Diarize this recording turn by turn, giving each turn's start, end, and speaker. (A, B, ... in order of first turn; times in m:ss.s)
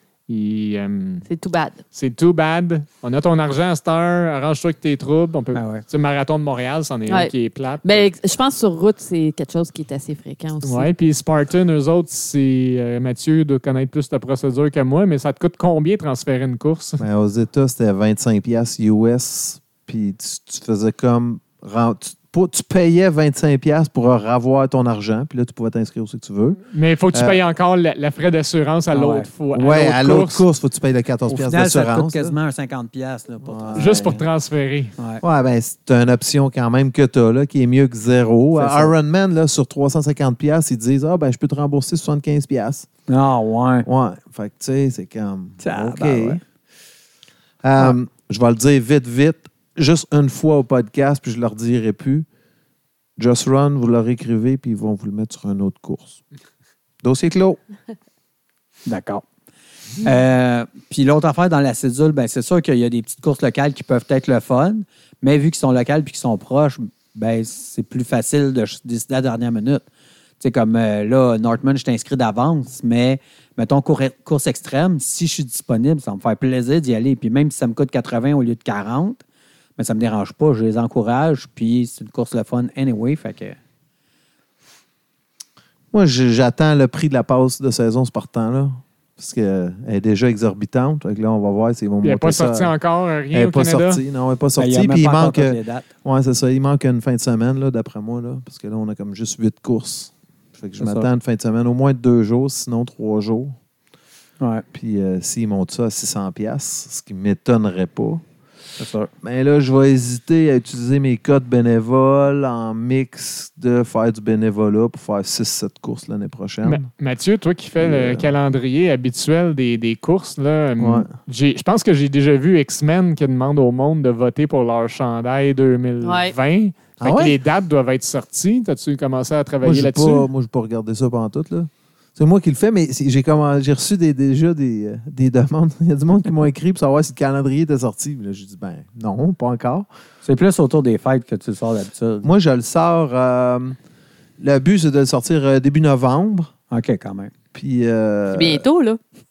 0:00.3-0:01.3 A
0:01.3-0:01.8 B
0:01.9-0:08.1 A
0:05.5-0:05.8 C
0:07.1-0:10.9 B
0:10.6-0:17.0 A
0:17.0-0:27.4 D
0:26.7-0:30.4 A
0:28.9-0:29.3 C
0:29.5-0:32.4 D
0:31.3-0:34.2 C
0:33.4-0:34.2 D
0:33.8-0:34.9 A
0:35.2-0:42.9 D
0:38.5-0:38.9 C
0:43.1-0:43.9 C
0:43.8-0:46.4 D
0:45.6-0:46.4 C
0:47.6-0:52.3 D
0:53.2-0:56.2 D
0:57.0-0:57.6 D
0:58.9-0:59.2 C
1:00.0-1:09.8 C
1:10.4-1:19.2 C
1:19.8-1:23.6 C
1:25.9-1:32.7 D
1:32.0-1:34.0 A
1:33.3-1:43.6 D
1:34.6-1:35.9 C
1:40.8-1:41.1 C
1:44.7-1:48.2 D
1:48.8-1:49.1 C
1:49.2-1:56.8 D
1:56.6-2:10.3 A
1:57.8-1:58.3 D
2:00.8-2:01.1 D
2:06.0-2:06.4 B
2:07.0-2:07.4 D
2:09.6-2:19.9 D
2:20.2-2:22.3 C
2:22.2-2:23.8 D
2:24.4-2:26.5 D
2:26.7-2:27.3 C
2:27.5-2:28.6 D
2:28.3-2:29.0 B